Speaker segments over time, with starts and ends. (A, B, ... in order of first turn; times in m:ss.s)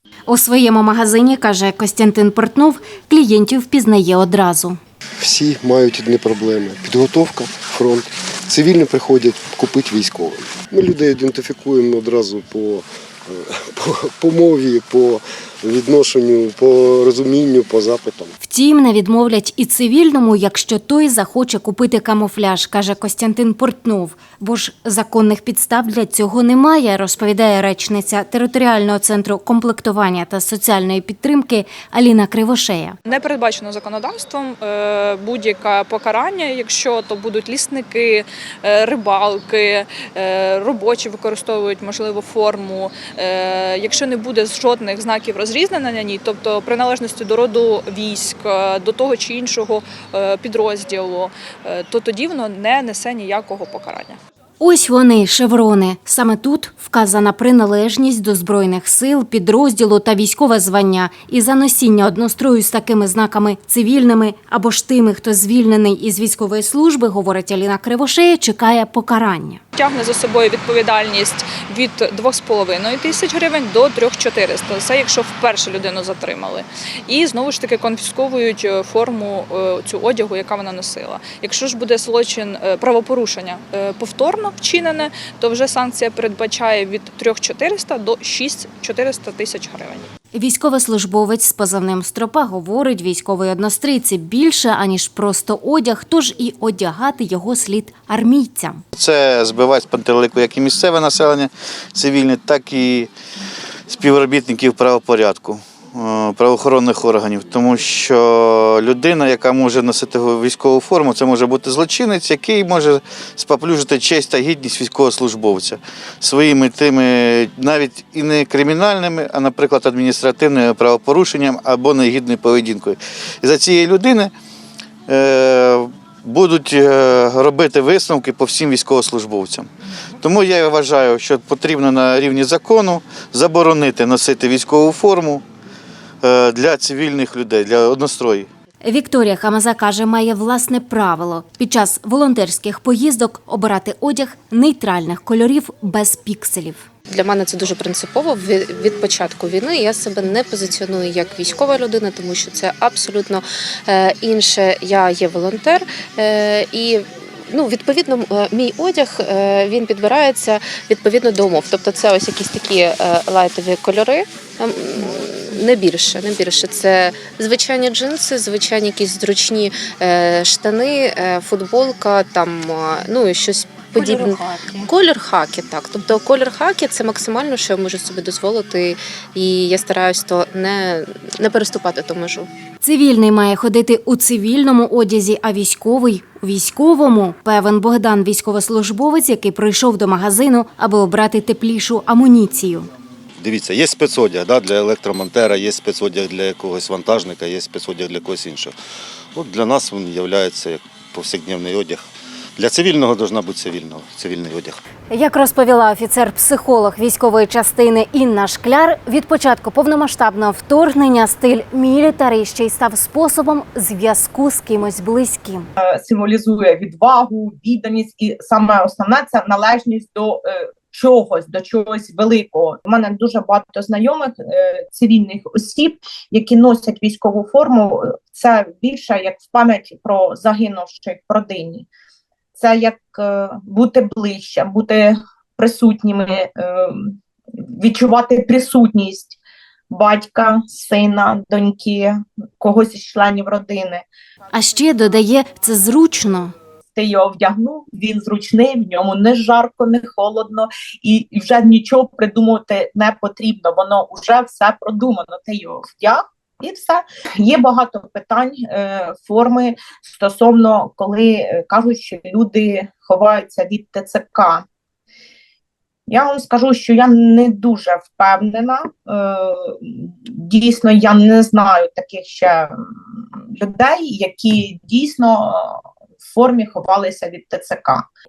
0:00.3-0:04.8 A
0:05.2-0:18.3 B
0:18.4-0:33.0 A
0:33.1-0:54.2 C
0:54.6-1:09.6 A
1:09.8-1:30.0 C
1:30.3-1:38.8 A
1:38.9-1:43.1 D
1:43.9-2:04.3 D
2:05.1-2:09.7 D
2:10.2-2:15.4 D
2:16.2-2:18.5 D
2:18.8-2:26.8 A
2:27.1-3:02.5 E
2:54.0-2:54.8 A
3:02.8-3:12.9 A
3:13.4-3:18.7 F
3:19.3-3:22.0 F
3:22.6-3:24.8 F
3:25.1-3:35.7 A
3:35.8-3:51.9 G
3:52.6-3:57.2 G
3:57.8-3:59.4 G
3:59.9-4:04.0 G
4:04.5-4:06.5 A
4:06.9-4:24.6 G
4:26.1-4:38.0 G